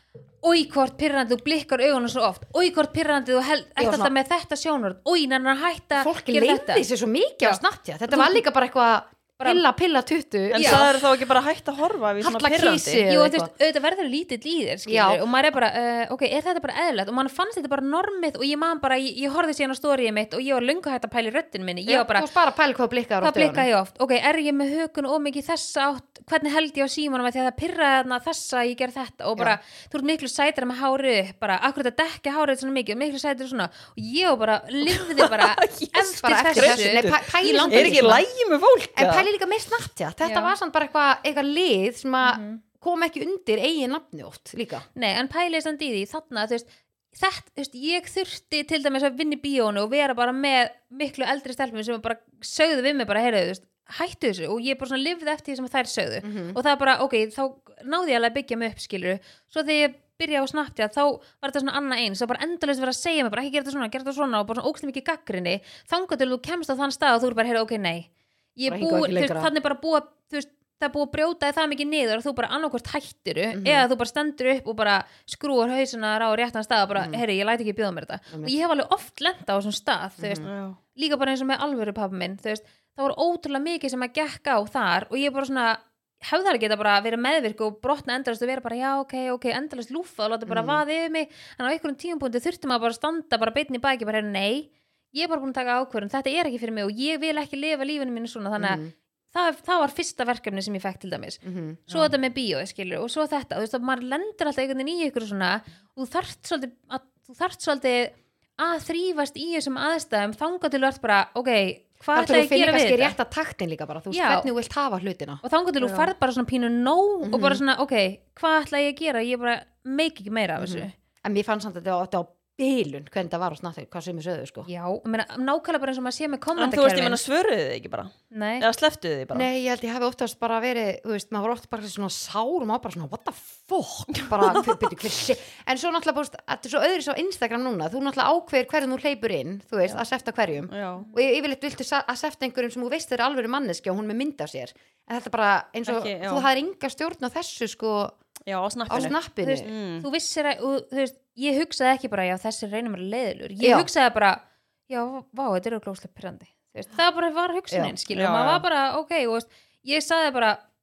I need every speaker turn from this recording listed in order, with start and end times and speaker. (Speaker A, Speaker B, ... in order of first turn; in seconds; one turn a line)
Speaker A: 0.4-6.8
Speaker B: 3.8-4.1
Speaker B: 6.0-10.9
Speaker A: 7.4-8.4
Speaker C: 10.5-13.0
Speaker A: 10.5-10.9
Speaker B: 12.2-13.5
Speaker A: 13.1-22.3
Speaker B: 14.9-15.2
Speaker B: 21.9-23.7
Speaker A: 23.2-38.2
Speaker C: 34.9-39.3
Speaker B: 36.2-38.2
Speaker B: 39.0-44.8
Speaker A: 40.2-40.5
Speaker A: 42.2-42.6
Speaker A: 44.9-113.1
Speaker B: 56.2-56.6
Speaker B: 68.7-69.5
Speaker B: 73.5-73.9
Speaker B: 77.0-77.2
Speaker B: 80.2-80.5
Speaker C: 80.4-80.8
Speaker B: 90.5-90.8
Speaker B: 98.6-98.9
Speaker B: 101.4-102.1
Speaker B: 112.1-116.1
Speaker A: 114.1-114.5
Speaker A: 115.4-120.9
Speaker B: 117.2-117.6
Speaker B: 120.6-124.7
Speaker A: 124.7-127.2
Speaker C: 126.6-129.5
Speaker A: 128.3-128.7
Speaker B: 129.3-148.2
Speaker C: 134.1-134.7
Speaker C: 140.7-141.1
Speaker C: 145.8-146.5
Speaker C: 148.5-150.1
Speaker B: 148.9-149.7
Speaker A: 149.4-160.6
Speaker B: 153.6-153.9
Speaker C: 158.1-158.6